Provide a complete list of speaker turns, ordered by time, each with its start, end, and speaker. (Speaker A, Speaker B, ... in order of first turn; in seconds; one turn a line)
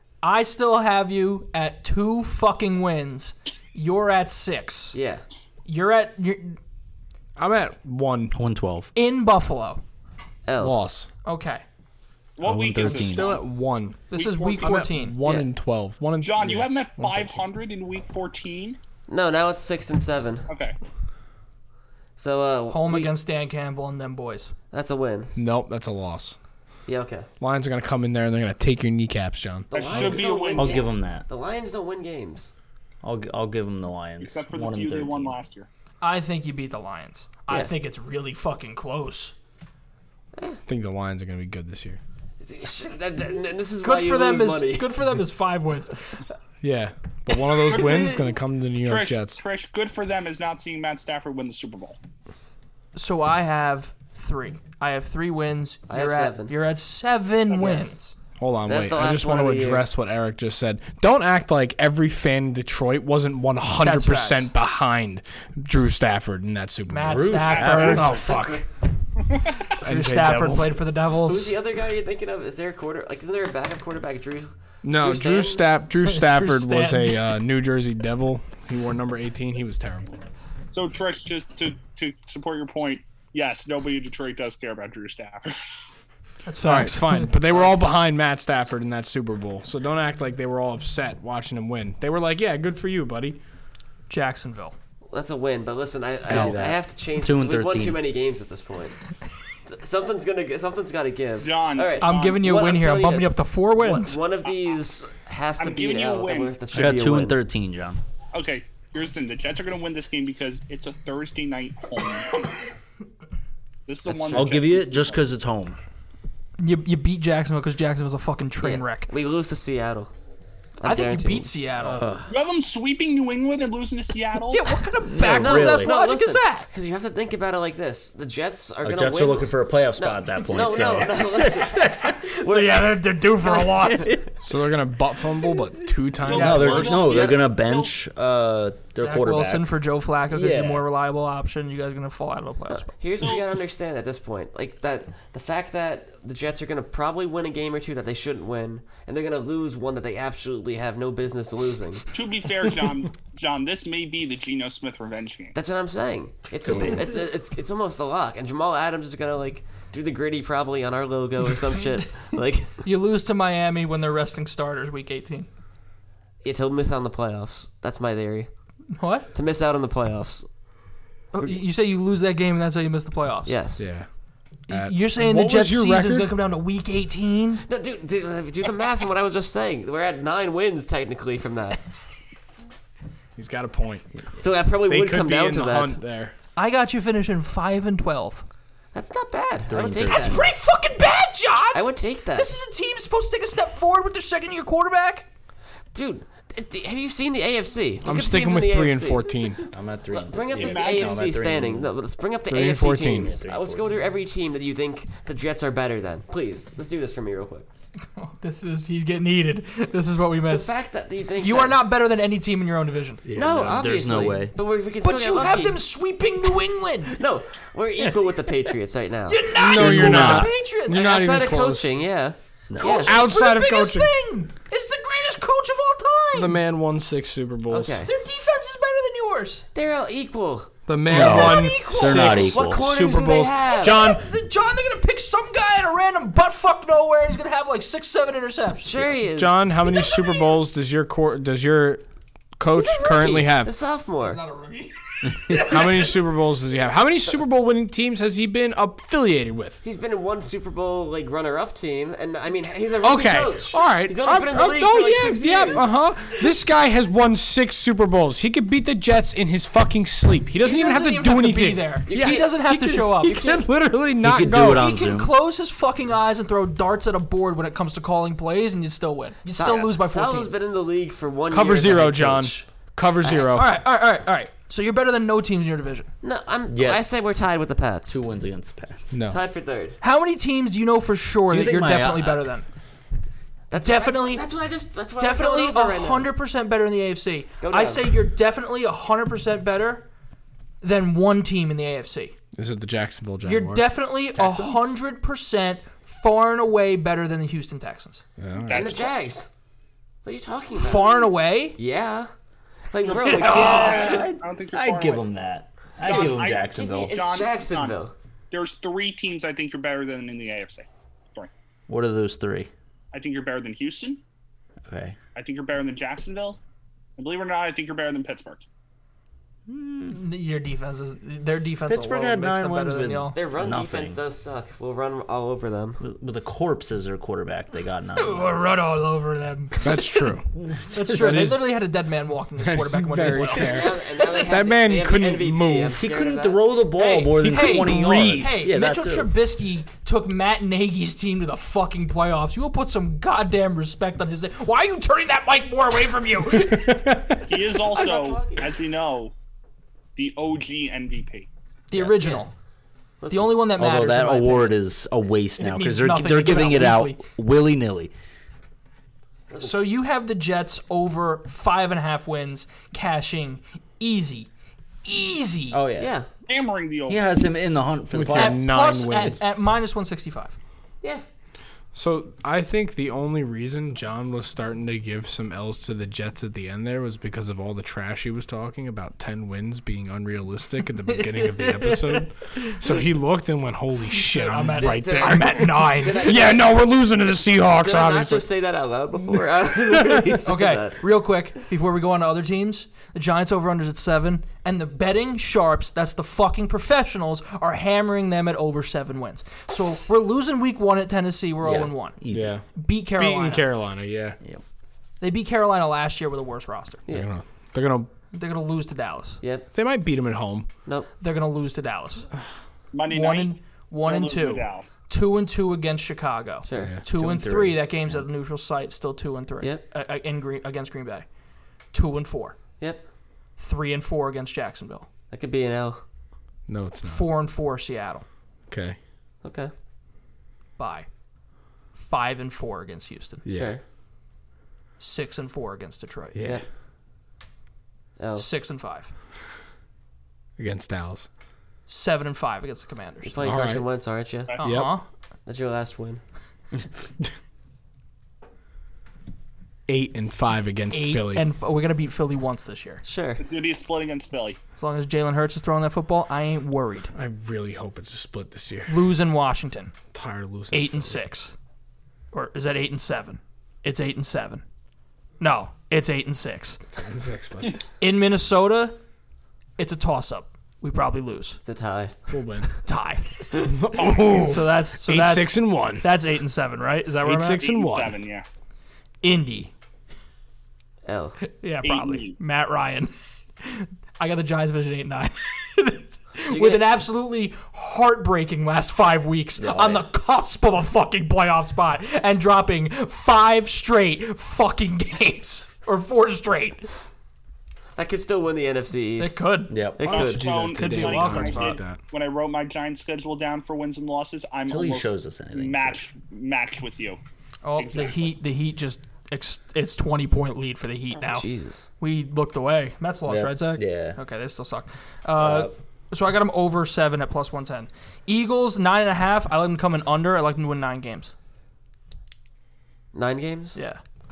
Speaker A: 0.2-5.0
Speaker B: 4.9-5.2
Speaker A: 5.7-6.6
Speaker C: 7.4-8.4
Speaker D: 8.3-8.9
Speaker A: 8.9-9.8
Speaker B: 10.4-10.8
Speaker C: 10.6-11.1
Speaker A: 11.2-11.6
Speaker E: 12.4-13.5
Speaker D: 12.4-13.4
Speaker C: 12.8-17.4
Speaker A: 14.1-15.2
Speaker E: 14.1-14.9
Speaker B: 15.2-15.5
Speaker E: 16.2-18.8
Speaker B: 19.1-20.5
Speaker E: 20.5-20.8
Speaker B: 22.2-23.1
Speaker A: 22.7-24.5
Speaker B: 24.7-25.4
Speaker C: 25.4-26.4
Speaker B: 26.9-27.3
Speaker C: 27.4-30.2
Speaker B: 29.7-32.5
Speaker E: 29.7-30.9
Speaker D: 30.0-31.3
Speaker D: 33.0-35.4
Speaker E: 34.2-35.7
Speaker A: 36.0-39.4
Speaker B: 40.4-40.6
Speaker C: 40.7-42.0
Speaker B: 42.4-44.9
Speaker A: 43.8-46.2
Speaker C: 46.6-49.4
Speaker E: 47.7-48.3
Speaker E: 48.8-52.0
Speaker A: 53.0-58.2
Speaker B: 55.9-56.5
Speaker E: 57.5-57.9
Speaker C: 58.4-68.7
Speaker B: 58.7-59.8
Speaker A: 63.8-64.5
Speaker A: 66.9-68.3
Speaker D: 67.0-68.2
Speaker E: 67.5-68.2
Speaker B: 67.7-68.7
Speaker C: 69.8-70.8
Speaker A: 69.8-71.5
Speaker B: 71.2-75.6
Speaker C: 74.8-80.2
Speaker A: 76.0-77.4
Speaker E: 80.7-85.5
Speaker A: 86.5-87.3
Speaker C: 86.6-93.4
Speaker A: 94.1-94.8
Speaker B: 95.1-99.0
Speaker D: 96.3-98.0
Speaker C: 96.3-96.6
Speaker B: 99.7-107.4
Speaker E: 101.4-102.4
Speaker A: 102.0-104.2
Speaker E: 105.6-106.6
Speaker D: 106.7-108.0
Speaker E: 108.3-112.5
Speaker E: 113.9-115.2
Speaker B: 114.1-114.5
Speaker D: 114.3-115.8
Speaker A: 116.6-119.1
Speaker B: 118.6-120.1
Speaker B: 120.8-121.5
Speaker A: 120.8-122.0
Speaker D: 121.8-122.3
Speaker E: 122.3-124.7
Speaker A: 124.4-126.7
Speaker D: 125.0-125.9
Speaker B: 125.2-134.3
Speaker D: 128.8-132.1
Speaker A: 132.0-134.2
Speaker C: 134.4-137.0
Speaker E: 136.2-137.9
Speaker A: 136.3-136.9
Speaker D: 136.4-139.7
Speaker B: 136.7-137.5
Speaker A: 139.0-142.9
Speaker D: 140.3-140.9
Speaker B: 142.7-152.1
Speaker E: 143.2-143.4
Speaker E: 152.1-155.6
Speaker B: 155.6-162.8
Speaker D: 156.6-157.1
Speaker A: 162.8-165.5
Speaker B: 166.4-168.5
Speaker A: 168.9-169.3
Speaker B: 169.3-170.5
Speaker A: 171.3-173.6
Speaker B: 173.4-173.9
Speaker C: 173.8-174.1
Speaker C: 174.7-176.3
Speaker A: 174.7-177.6
Speaker B: 177.7-181.8
Speaker C: 183.4-184.1
Speaker B: 184.4-186.0
Speaker C: 184.9-186.3
Speaker A: 186.6-188.4
Speaker B: 188.9-190.5
Speaker D: 189.7-190.4
Speaker A: 190.1-195.3
Speaker B: 191.7-192.5
Speaker B: 195.9-199.4
Speaker C: 198.0-199.7
Speaker D: 199.7-201.9
Speaker B: 200.1-207.7
Speaker E: 200.5-201.3
Speaker C: 202.5-203.4
Speaker D: 203.0-204.1
Speaker A: 208.2-210.7
Speaker B: 210.5-211.8
Speaker A: 211.4-213.2
Speaker D: 213.2-214.5
Speaker B: 213.3-215.8
Speaker A: 215.0-217.2
Speaker B: 217.1-219.5
Speaker A: 219.3-221.0
Speaker C: 219.5-221.9
Speaker D: 219.8-220.5
Speaker B: 220.9-223.2
Speaker D: 222.7-223.1
Speaker A: 222.8-226.6
Speaker C: 222.8-224.1
Speaker C: 226.3-228.0
Speaker B: 227.7-228.1
Speaker A: 228.0-229.7
Speaker B: 229.7-230.8
Speaker C: 230.9-234.2
Speaker D: 231.1-232.8
Speaker A: 231.1-232.5
Speaker B: 232.0-234.1
Speaker A: 233.7-239.2
Speaker B: 238.8-239.8
Speaker C: 239.3-242.1
Speaker A: 239.8-240.5
Speaker C: 242.6-243.7
Speaker B: 242.8-244.4
Speaker A: 244.2-246.1
Speaker C: 245.6-249.8
Speaker B: 249.8-256.4
Speaker C: 253.0-264.9
Speaker A: 260.6-263.5
Speaker B: 262.1-262.6
Speaker B: 263.2-263.6
Speaker D: 264.2-265.3
Speaker A: 264.7-270.5
Speaker B: 269.5-272.7
Speaker C: 271.5-273.7
Speaker B: 273.2-273.5
Speaker A: 273.5-276.1
Speaker B: 276.2-278.2
Speaker D: 276.7-277.0
Speaker D: 278.1-279.1
Speaker C: 279.1-279.4
Speaker B: 279.3-280.0
Speaker A: 280.0-282.7
Speaker D: 281.5-282.4
Speaker B: 283.7-286.3
Speaker A: 283.8-284.4
Speaker A: 285.2-290.1
Speaker B: 287.6-288.0
Speaker A: 290.8-292.4
Speaker C: 292.6-294.0
Speaker A: 293.4-298.2
Speaker D: 294.3-294.9
Speaker C: 298.4-298.9
Speaker E: 298.6-299.2
Speaker B: 298.7-299.5
Speaker B: 300.2-302.3
Speaker A: 300.8-301.8
Speaker B: 302.9-304.3
Speaker E: 303.1-305.2
Speaker A: 303.1-304.2
Speaker D: 303.7-307.2
Speaker E: 306.0-308.0
Speaker B: 306.1-308.1
Speaker E: 308.5-311.5
Speaker D: 311.9-312.7
Speaker E: 313.1-314.2
Speaker D: 314.9-315.2
Speaker E: 315.4-316.6
Speaker E: 317.2-318.6
Speaker D: 319.7-320.2
Speaker A: 320.1-323.4
Speaker D: 321.9-324.2
Speaker B: 323.3-326.0
Speaker D: 326.0-328.7
Speaker A: 328.2-330.3
Speaker C: 329.8-330.5
Speaker D: 330.5-331.6
Speaker A: 330.9-334.4
Speaker C: 331.1-331.7
Speaker C: 332.6-336.0
Speaker B: 333.5-336.6
Speaker D: 336.0-339.3
Speaker A: 336.9-347.0
Speaker C: 337.6-338.7
Speaker C: 346.5-347.5
Speaker E: 347.5-349.3
Speaker B: 347.9-348.8
Speaker E: 350.2-351.5
Speaker A: 351.9-352.5
Speaker D: 351.9-352.4
Speaker B: 353.2-353.5
Speaker A: 353.3-354.8
Speaker D: 353.8-358.1
Speaker A: 355.6-357.2
Speaker B: 359.5-359.8
Speaker A: 359.6-364.5
Speaker A: 365.1-365.8
Speaker D: 365.7-366.1
Speaker B: 366.0-366.3
Speaker E: 366.5-367.3
Speaker D: 367.1-368.6
Speaker C: 368.1-369.4
Speaker A: 368.3-370.6
Speaker C: 371.9-388.5
Speaker A: 381.1-382.8
Speaker A: 384.4-386.4
Speaker B: 384.4-386.8
Speaker B: 387.7-391.1
Speaker A: 390.4-402.2
Speaker D: 401.6-402.6
Speaker C: 402.3-404.4
Speaker A: 402.7-403.7
Speaker A: 405.2-407.0
Speaker C: 407.1-408.1
Speaker A: 408.3-409.4
Speaker B: 409.4-409.7
Speaker C: 409.7-410.7
Speaker A: 411.2-412.3
Speaker E: 412.9-415.0
Speaker A: 413.1-421.3
Speaker B: 416.7-416.9
Speaker C: 416.7-417.0
Speaker D: 417.1-418.3
Speaker A: 421.9-422.6
Speaker A: 423.6-425.1
Speaker B: 425.3-426.0
Speaker C: 426.7-427.3
Speaker A: 427.0-428.2
Speaker C: 428.7-429.0
Speaker B: 429.4-429.7
Speaker A: 430.8-431.1
Speaker A: 431.9-433.4
Speaker C: 433.4-433.8
Speaker B: 433.5-433.8
Speaker A: 435.0-436.4
Speaker C: 436.3-436.6
Speaker B: 438.2-438.5
Speaker A: 438.4-439.1
Speaker C: 440.6-441.3
Speaker A: 441.9-443.4
Speaker B: 443.3-444.6
Speaker C: 443.4-443.9
Speaker A: 444.6-445.1
Speaker C: 444.6-445.0
Speaker B: 445.5-446.2
Speaker C: 449.9-451.4
Speaker A: 450.9-453.0
Speaker B: 453.0-453.4
Speaker E: 453.4-454.6
Speaker A: 454.8-457.1
Speaker C: 457.1-459.1
Speaker A: 458.9-459.9
Speaker C: 460.1-461.2
Speaker A: 460.7-461.6
Speaker A: 462.3-464.6
Speaker A: 465.4-466.8
Speaker C: 466.9-467.8
Speaker A: 468.0-469.0
Speaker A: 469.8-471.6
Speaker B: 471.6-472.2
Speaker C: 472.3-472.8
Speaker A: 472.9-473.6
Speaker C: 473.6-476.1
Speaker E: 474.0-474.4
Speaker A: 474.3-477.6
Speaker C: 477.2-478.2
Speaker E: 477.6-478.4
Speaker A: 479.2-479.7
Speaker B: 481.1-481.4
Speaker A: 481.4-496.9
Speaker E: 481.8-482.4
Speaker B: 486.4-486.9
Speaker D: 489.6-490.1
Speaker B: 498.0-500.5
Speaker A: 499.2-499.8
Speaker D: 499.7-500.1
Speaker C: 500.0-502.0
Speaker E: 500.1-507.2
Speaker A: 500.7-501.8
Speaker D: 504.7-506.0
Speaker A: 507.6-511.5
Speaker E: 507.8-508.2
Speaker B: 511.2-511.9
Speaker A: 512.0-521.3
Speaker D: 513.3-514.2
Speaker D: 515.4-515.7
Speaker B: 523.1-523.8
Speaker A: 523.8-524.0